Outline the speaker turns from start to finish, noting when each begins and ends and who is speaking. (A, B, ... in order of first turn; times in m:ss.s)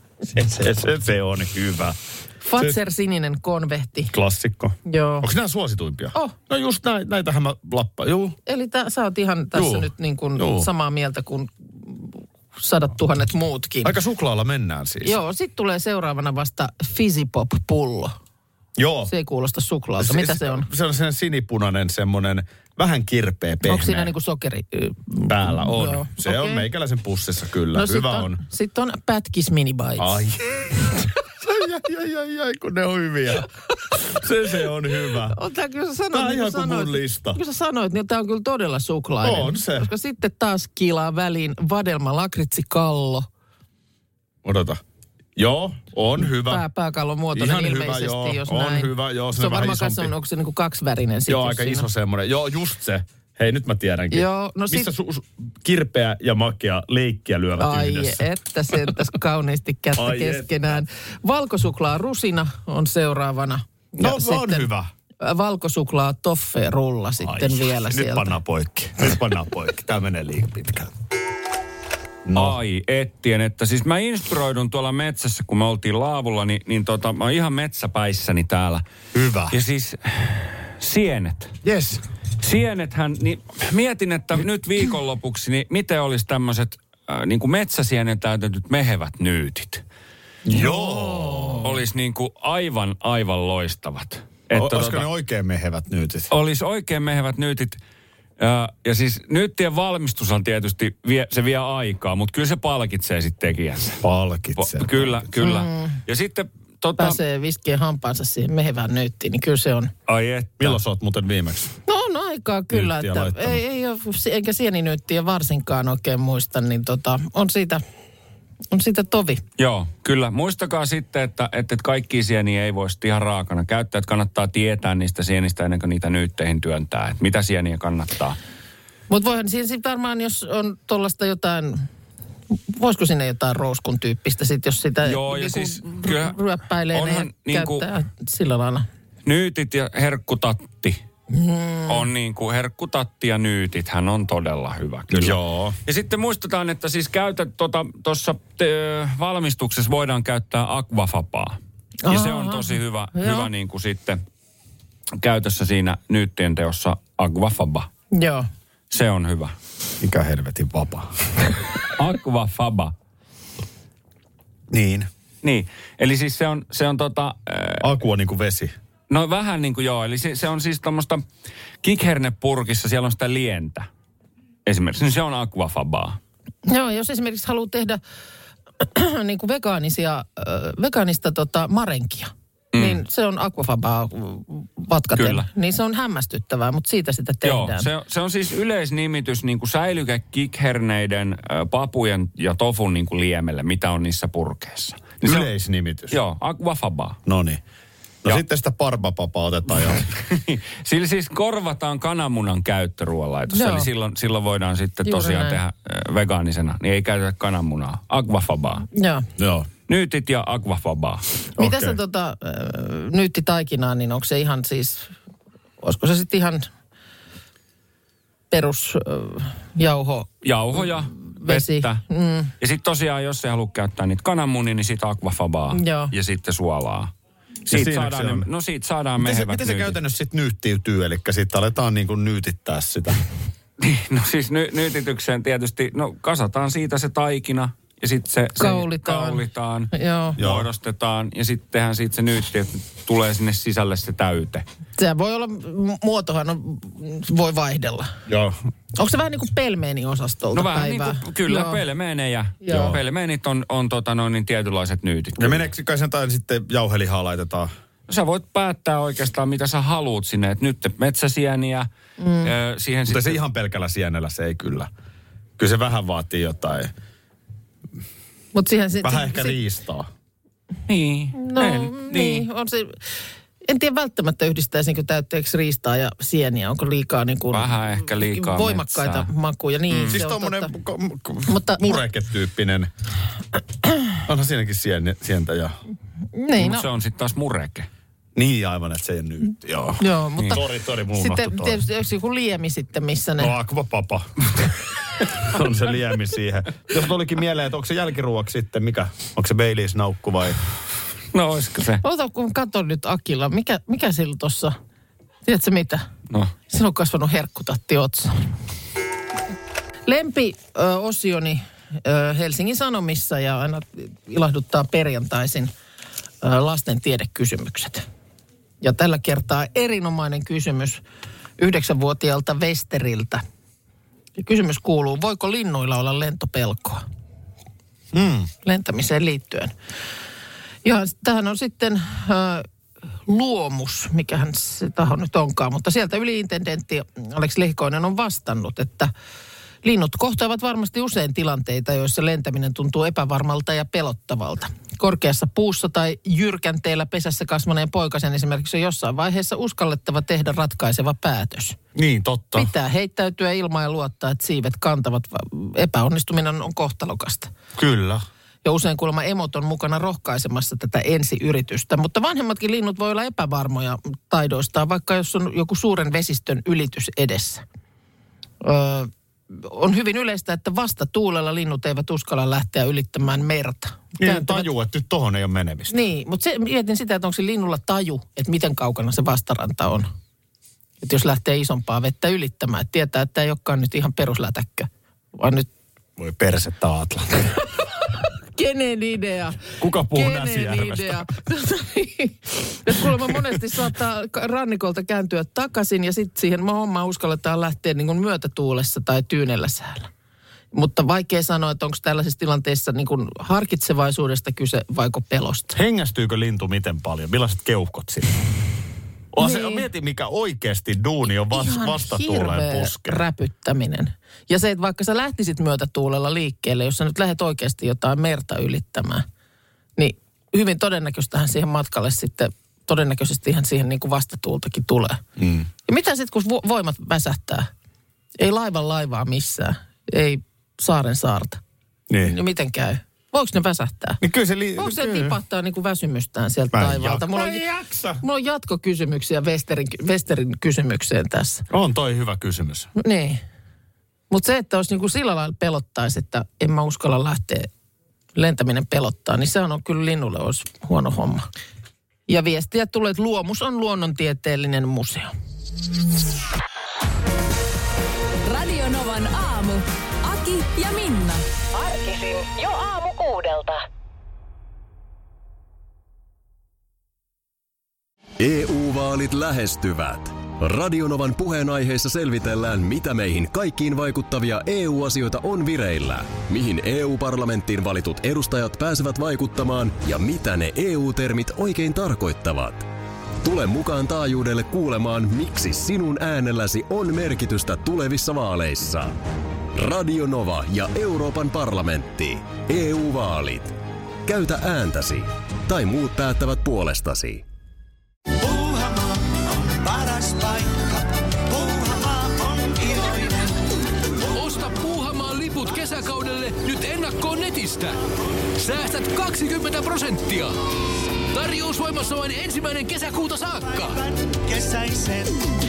0:00.3-0:02.0 A
0:02.4-0:04.1 B
0:04.1-0:08.4 A
0:04.8-0:05.3 B
0:08.4-0:13.9 B
0:09.5-0:10.7 A
0:13.8-0:15.2 A
0:15.0-0:18.1 B
0:18.8-0:19.1 A
0:19.1-0:20.7 B
0:20.0-0:24.1 A
0:23.6-0:26.6 B
0:25.2-0:28.4 A
0:27.7-0:30.2 B
0:30.0-0:35.4 A
0:35.2-0:43.3 B
0:36.1-0:37.4 A
0:39.2-0:39.9 A
0:44.4-0:44.8 A
0:45.4-0:46.6 A
0:46.2-0:51.9 B
0:47.3-0:50.1 A
0:51.3-0:58.2 A
0:54.1-0:54.9 B
0:57.6-1:04.7 B
0:59.9-1:00.8 A
1:04.0-1:04.9 A
1:05.2-1:08.3 B
1:07.2-1:10.9 A
1:12.2-1:12.6 A
1:12.3-1:18.8 C
1:19.1-1:19.6 A
1:19.5-1:21.5 C
1:21.6-1:22.0 A
1:22.4-1:29.8 C
1:30.4-1:31.8 A
1:30.5-1:31.6 B
1:31.6-1:35.0 C
1:34.5-1:36.3 A
1:36.3-1:37.8 C
1:38.4-1:44.0 C
1:44.0-1:45.2 A
1:44.6-1:47.2 C
1:45.4-1:46.0 B
1:47.0-1:49.9 B
1:50.1-1:50.8 C
1:50.6-1:51.7 A
1:51.9-1:57.8 B
1:52.7-1:53.6 A
1:58.7-1:59.4 B
1:59.6-2:08.4 C
2:09.1-2:11.9 B
2:12.5-2:18.9 B
2:15.0-2:16.4 C
2:16.9-2:17.8 C
2:19.2-2:21.0 C
2:21.3-2:22.1 B
2:21.9-2:34.2 C
2:25.1-2:25.8 A
2:32.0-2:33.5 B
2:35.2-2:37.9 C
2:38.1-2:38.5 B
2:38.9-2:39.5 C
2:40.0-2:41.1 A
2:41.8-2:42.9 C
2:44.7-2:45.1 A
2:45.4-2:47.9 C
2:47.8-2:48.7 A
2:49.1-2:51.2 C
2:51.8-2:53.9 C
2:54.6-2:56.2 C
2:56.7-2:58.0 B
2:58.8-3:07.9 B
3:02.7-3:03.0 C
3:05.2-3:05.5 C
3:07.4-3:15.5 C
3:15.2-3:16.2 A
3:16.1-3:17.2 C
3:17.2-3:17.6 A
3:18.2-3:20.1 A
3:19.9-3:28.9 C
3:23.5-3:23.9 B
3:25.0-3:25.6 B
3:28.9-3:29.3 B
3:29.4-3:29.7 A
3:29.9-3:31.3 C
3:31.6-3:35.1 B
3:31.6-3:32.0 A
3:35.8-3:36.7 B
3:38.5-3:42.5 B
3:40.4-3:42.0 C
3:42.6-3:47.1 C
3:45.7-3:46.1 B
3:47.7-3:48.5 A
3:47.7-3:50.0 C
3:49.2-3:53.2 A
3:53.8-4:04.6 C
3:58.6-4:00.4 B
4:00.4-4:00.7 A
4:05.0-4:08.1 B
4:08.3-4:08.6 A
4:09.0-4:11.8 B
4:10.5-4:15.7 C
4:12.6-4:12.9 B
4:12.7-4:13.0 A
4:15.4-4:17.7 A
4:18.1-4:21.9 C
4:22.2-4:22.5 B
4:22.4-4:23.4 C
4:23.1-4:24.9 A
4:25.6-4:26.9 A
4:28.5-4:29.6 B
4:29.0-4:30.1 A
4:30.9-4:32.4 C
4:31.3-4:33.0 B
4:33.6-4:40.7 B
4:37.5-4:39.3 C
4:39.9-4:40.2 C
4:40.1-4:42.9 A
4:41.5-4:42.0 B
4:44.2-4:45.8 A
4:46.3-4:46.8 B
4:46.6-4:47.9 C
4:48.3-4:51.8 A
4:50.0-4:53.5 B
4:53.4-4:54.3 A
4:55.3-5:00.6 A
5:01.3-5:02.0 C
5:02.0-5:04.8 B
5:05.4-5:06.1 B
5:06.7-5:08.3 B
5:10.0-5:15.7 B
5:16.4-5:18.0 B
5:18.8-5:21.0 B
5:21.6-5:23.4 B
5:24.4-5:27.0 B
5:28.1-5:28.5 A
5:28.6-5:29.7 B
5:30.8-5:32.7 B
5:33.2-5:39.1 B
5:39.8-5:51.8 B
5:51.9-5:52.7 A
5:52.5-5:57.5 B
5:57.7-5:58.2 A
5:58.6-6:07.6 B
6:08.6-6:14.7 B
6:14.2-6:15.9 A
6:15.9-6:20.1 B
6:21.0-6:25.7 B
6:26.2-6:27.5 A
6:28.5-6:40.1 B
6:29.8-6:31.3 A
6:40.7-6:45.8 B
6:45.7-6:48.4 A
6:49.3-6:53.2 A
6:49.4-6:49.9 B
6:51.5-6:59.2 B
7:00.0-7:05.2 B
7:05.4-7:05.7 A
7:05.9-7:07.7 B
7:08.4-7:11.6 B
7:12.1-7:12.4 A
7:12.2-7:14.2 B
7:14.2-7:15.4 A
7:14.8-7:17.6 B
7:16.7-7:18.2 A
7:18.2-7:21.6 B
7:21.7-7:22.9 A
7:23.0-7:23.4 B
7:24.3-7:27.7 B
7:28.3-7:31.4 B
7:32.3-7:35.3 B
7:38.4-7:41.4 D
7:41.7-7:43.8 E
7:48.4-8:02.9 F
8:03.4-8:09.2 F
8:09.7-8:13.7 F
8:14.2-8:17.4 F
8:18.4-8:20.9 G
8:21.4-8:23.5 G
8:22.8-8:23.0 H
8:24.2-8:28.0 H
8:28.6-8:30.5 H
8:31.3-8:34.9 H
8:34.3-8:35.3 G